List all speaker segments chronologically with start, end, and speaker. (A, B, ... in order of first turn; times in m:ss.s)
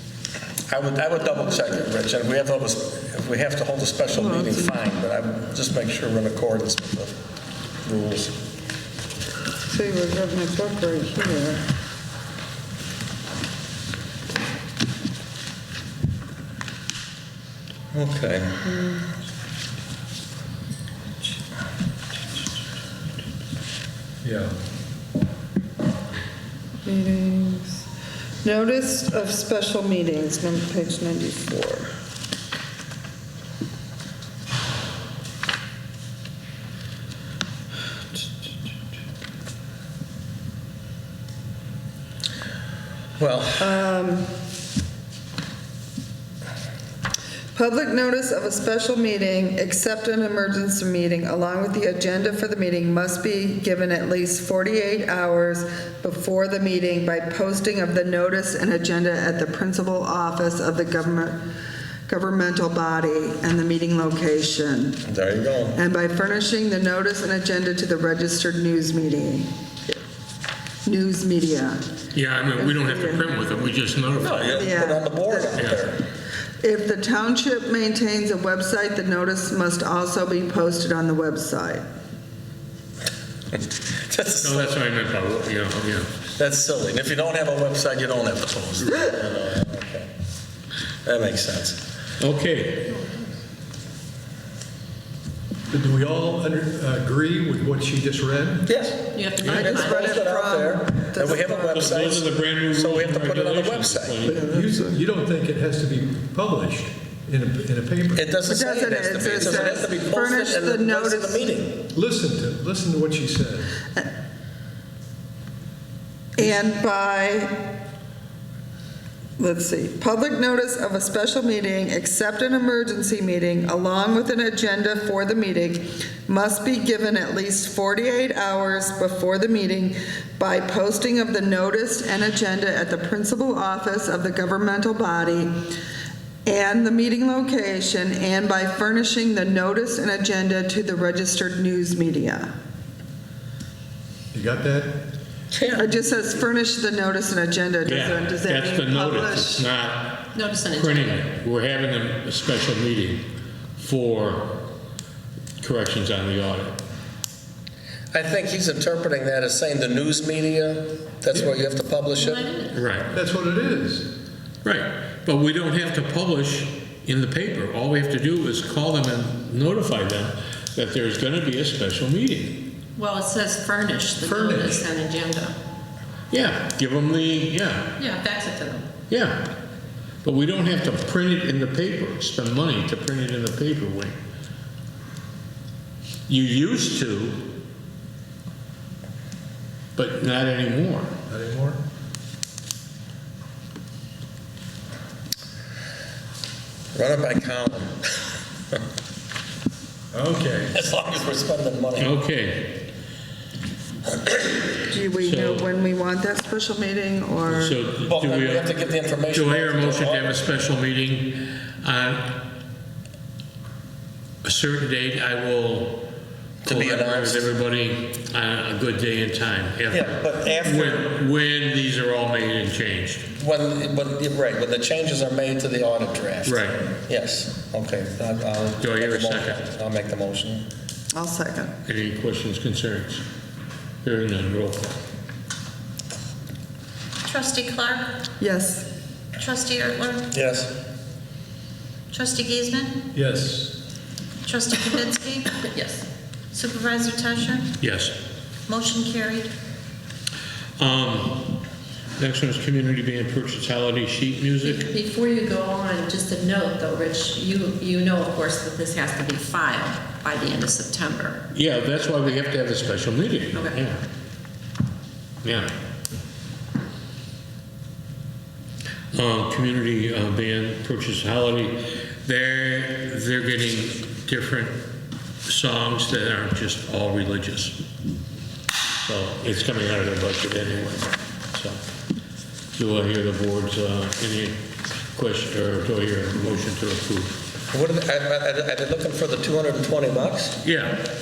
0:00.7-0:07.2 A
0:04.1-0:04.8 B
0:07.8-0:08.3 A
0:09.7-0:11.6 B
0:17.9-0:18.7 A
0:18.6-0:19.0 B
0:24.2-0:24.6 C
0:26.8-0:27.9 B
0:28.4-0:31.9 B
0:43.2-0:43.7 A
0:43.6-0:44.3 B
0:47.5-1:01.4 B
1:02.1-1:05.0 B
1:05.1-1:05.8 A
1:05.7-1:09.9 B
1:10.8-1:11.8 B
1:12.1-1:14.7 D
1:12.6-1:13.4 B
1:14.2-1:16.0 A
1:14.5-1:15.7 B
1:16.6-1:21.8 B
1:24.1-1:24.7 A
1:24.4-1:26.1 D
1:26.3-1:30.1 A
1:31.0-1:31.8 A
1:32.2-1:32.9 D
1:33.0-1:33.2 E
1:35.7-1:38.7 C
1:38.7-1:44.2 A
1:39.1-1:40.2 E
1:39.4-1:39.7 D
1:39.4-1:41.9 B
1:41.4-1:44.5 D
1:44.2-1:48.3 C
1:48.1-1:51.8 A
1:48.5-1:51.5 B
1:51.9-1:53.8 C
1:56.4-1:57.6 B
1:59.4-2:15.6 B
2:16.4-2:22.5 B
2:24.3-2:25.0 C
2:25.5-2:25.9 A
2:25.8-2:29.6 B
2:27.9-2:33.2 D
2:30.3-2:31.3 E
2:33.8-2:34.6 D
2:35.6-2:36.8 D
2:38.1-2:42.5 A
2:41.3-2:41.6 C
2:42.2-2:43.0 E
2:42.7-2:43.1 D
2:43.1-2:44.1 C
2:44.6-2:52.6 D
2:53.0-2:55.6 E
2:54.2-2:54.9 C
2:56.3-2:58.0 D
2:58.0-2:58.9 E
2:59.1-2:59.5 D
3:00.2-3:04.2 D
3:06.3-3:07.5 D
3:10.0-3:11.1 D
3:11.3-3:11.8 C
3:16.9-3:18.1 A
3:20.1-3:20.8 C
3:20.7-3:22.1 A
3:22.0-3:22.9 D
3:24.9-3:27.8 B
3:25.2-3:25.7 D
3:27.5-3:32.4 D
3:28.0-3:30.4 A
3:34.4-3:36.1 D
3:36.6-3:37.5 A
3:36.6-3:43.3 D
3:39.9-3:41.1 A
3:43.4-3:50.6 A
3:46.4-3:46.8 D
3:48.8-3:49.6 D
3:51.1-3:51.7 B
3:51.9-3:53.2 D
3:54.0-3:55.0 D
3:57.2-3:58.2 F
3:58.4-3:58.8 B
3:59.4-4:00.3 F
4:00.3-4:00.7 A
4:02.1-4:03.0 F
4:03.1-4:03.8 C
4:04.4-4:05.6 F
4:05.7-4:06.0 E
4:06.5-4:07.7 F
4:07.8-4:08.2 D
4:08.7-4:09.5 F
4:10.8-4:11.6 D
4:12.2-4:14.9 D
4:14.6-4:21.4 E
4:21.5-4:24.0 D
4:25.4-4:25.7 D
4:29.1-4:34.8 D
4:35.4-4:37.8 D
4:39.0-4:41.8 D
4:42.8-4:47.4 D
4:47.7-4:50.6 A
4:50.6-4:51.0 D